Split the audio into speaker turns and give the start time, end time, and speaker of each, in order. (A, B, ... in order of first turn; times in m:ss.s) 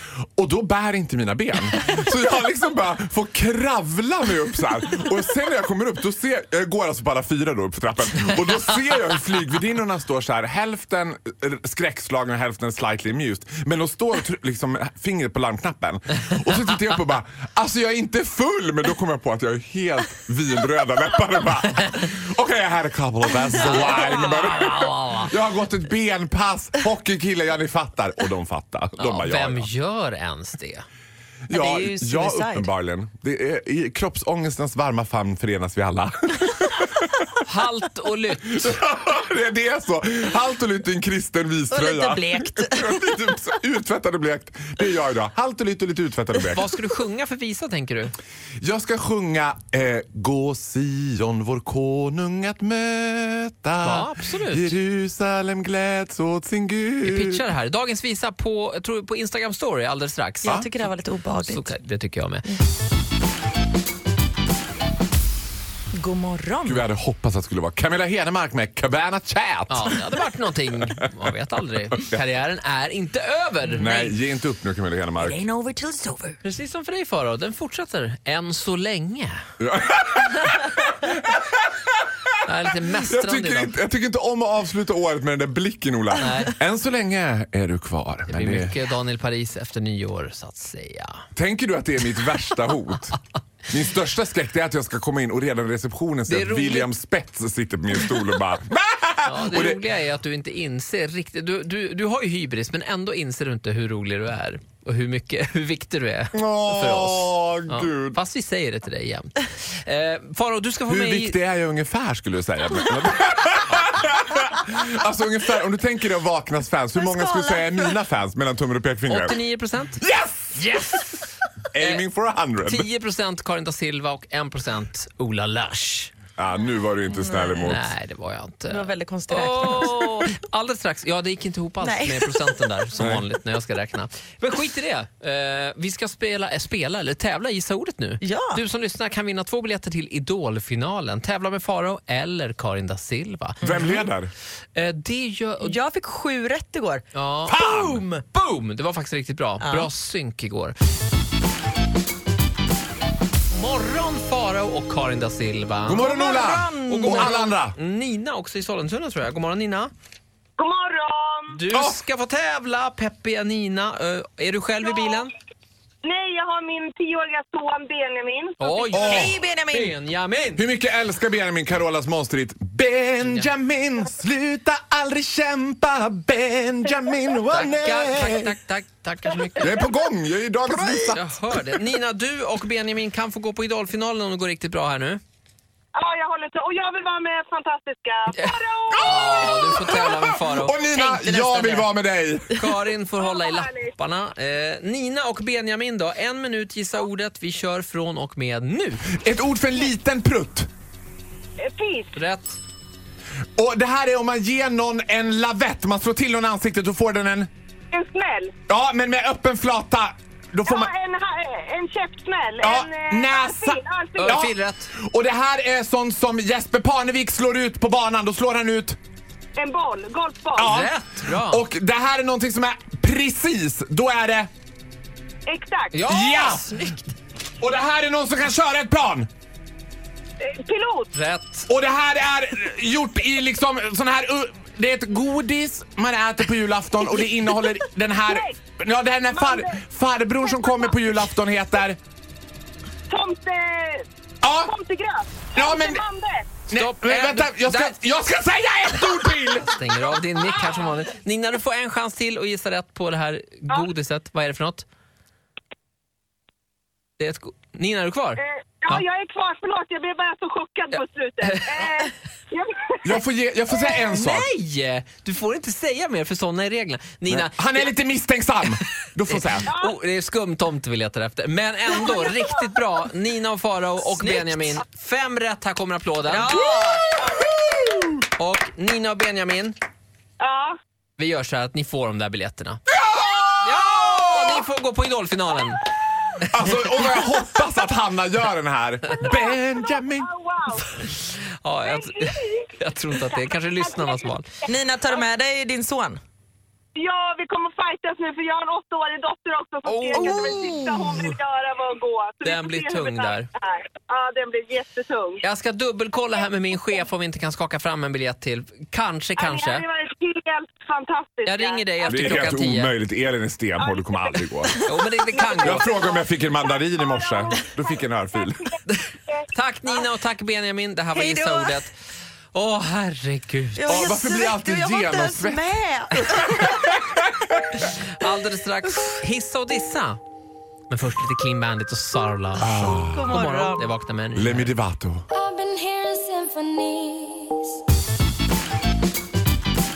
0:00.2-0:29.7 A
0:23.6-0:25.3 B
0:29.0-0:30.8 B
0:31.5-0:37.2 A
0:31.5-0:32.7 C
0:37.5-0:38.8 B
0:38.5-0:46.7 A
0:41.7-0:43.2 C
0:46.5-0:48.1 B
0:48.6-0:57.5 A
0:53.8-0:54.7 B
0:57.0-1:00.6 B
1:00.4-1:01.7 C
1:01.4-1:02.4 B
1:05.9-1:06.8 C
1:06.6-1:10.0 A
1:09.7-1:14.1 B
1:11.9-1:12.2 A
1:13.8-1:15.4 A
1:15.2-1:16.4 C
1:16.4-1:19.4 B
1:19.6-1:28.7 A
1:22.4-1:23.8 B
1:26.2-1:26.5 B
1:28.3-1:31.2 B
1:31.4-1:33.2 A
1:33.7-1:39.8 A
1:36.3-1:36.9 B
1:39.2-1:51.4 B
1:46.3-1:48.2 A
1:50.9-1:59.4 A
1:57.0-1:57.9 C
1:59.1-2:00.0 B
2:00.0-2:01.0 A
2:00.6-2:01.2 B
2:01.7-2:02.9 A
2:01.8-2:02.0 B
2:02.6-2:06.1 B
2:06.4-2:07.9 A
2:07.2-2:07.7 C
2:07.6-2:23.6 B
2:08.7-2:10.3 C
2:11.8-2:12.6 C
2:13.0-2:13.2 A
2:18.2-2:18.6 C
2:23.6-2:24.0 C
2:23.6-2:24.3 A
2:24.8-2:25.8 B
2:25.6-2:28.2 C
2:27.1-2:27.6 B
2:27.5-2:28.0 A
2:28.3-2:30.8 B
2:29.6-2:29.9 C
2:33.5-2:39.9 B
2:35.8-2:37.8 A
2:36.0-2:37.5 C
2:40.6-2:41.6 D
2:41.5-2:45.3 B
2:41.7-2:42.0 A
2:44.8-2:45.2 D
2:46.0-2:48.7 D
2:48.6-2:50.6 B
2:48.9-2:49.4 A
2:48.9-2:50.0 C
2:50.6-2:58.6 A
2:53.2-2:53.5 B
2:57.5-2:59.8 B
2:59.6-3:01.3 A
3:01.0-3:05.2 B
3:06.0-3:09.4 D
3:08.3-3:10.8 B
3:08.9-3:12.6 A
3:10.9-3:11.9 C
3:12.5-3:19.1 B
3:13.2-3:13.9 D
3:19.1-3:20.7 A
3:21.6-3:22.2 D
3:22.1-3:22.6 B
3:23.6-3:27.5 A
3:27.9-3:28.5 D
3:28.7-3:30.9 A
3:30.7-3:34.4 D
3:32.6-3:39.0 A
3:34.2-3:34.9 B
3:39.6-3:40.8 D
3:40.6-3:44.5 A
3:40.6-3:41.6 B
3:45.5-3:46.0 D
3:45.9-3:46.8 B
3:46.0-3:46.8 A
3:47.6-3:49.3 A
3:50.4-3:51.1 D
3:51.1-3:51.7 B
3:51.7-4:02.0 A
3:58.3-3:58.6 D
3:59.3-3:59.8 D
4:00.4-4:00.9 D
4:03.1-4:04.1 D
4:04.4-4:04.7 A
4:04.6-4:06.5 D
4:05.6-4:06.0 A
4:06.7-4:09.9 A
4:06.7-4:08.0 B
4:09.7-4:14.9 B
4:17.2-4:19.0 B
4:18.4-4:23.2 D
4:21.4-4:21.8 B
4:23.0-4:24.5 A
4:24.1-4:27.8 B
4:27.3-4:29.7 A
4:29.3-4:36.6 B
4:29.6-4:30.0 D
4:34.1-4:34.8 C
4:36.3-4:37.1 C
4:36.6-4:38.1 A
4:38.4-4:39.8 B
4:40.4-4:40.8 D
4:41.2-4:42.8 B
4:42.9-4:44.5 A
4:43.6-4:45.8 B
4:46.5-4:50.3 A
4:49.3-4:50.9 D
4:51.0-4:54.5 B
4:51.8-4:52.7 D
4:53.3-4:54.3 D
4:54.7-4:56.2 C
4:57.0-5:05.4 D
4:59.9-5:00.8 B
5:00.2-5:01.2 C
5:02.4-5:03.5 B
5:05.4-5:09.9 B
5:09.4-5:12.4 D
5:11.4-5:12.9 B
5:12.1-5:14.8 A
5:13.8-5:14.4 D
5:14.8-5:15.9 B
5:15.3-5:18.4 D
5:15.6-5:18.7 A
5:18.9-5:21.9 B
5:21.1-5:21.8 C
5:22.5-5:24.2 B
5:23.8-5:27.0 C
5:23.9-5:25.8 A
5:26.4-5:27.6 A
5:27.9-5:30.2 B
5:30.9-5:34.7 B
5:32.6-5:33.4 A
5:32.6-5:33.9 C
5:34.4-5:35.3 A
5:35.4-5:37.4 E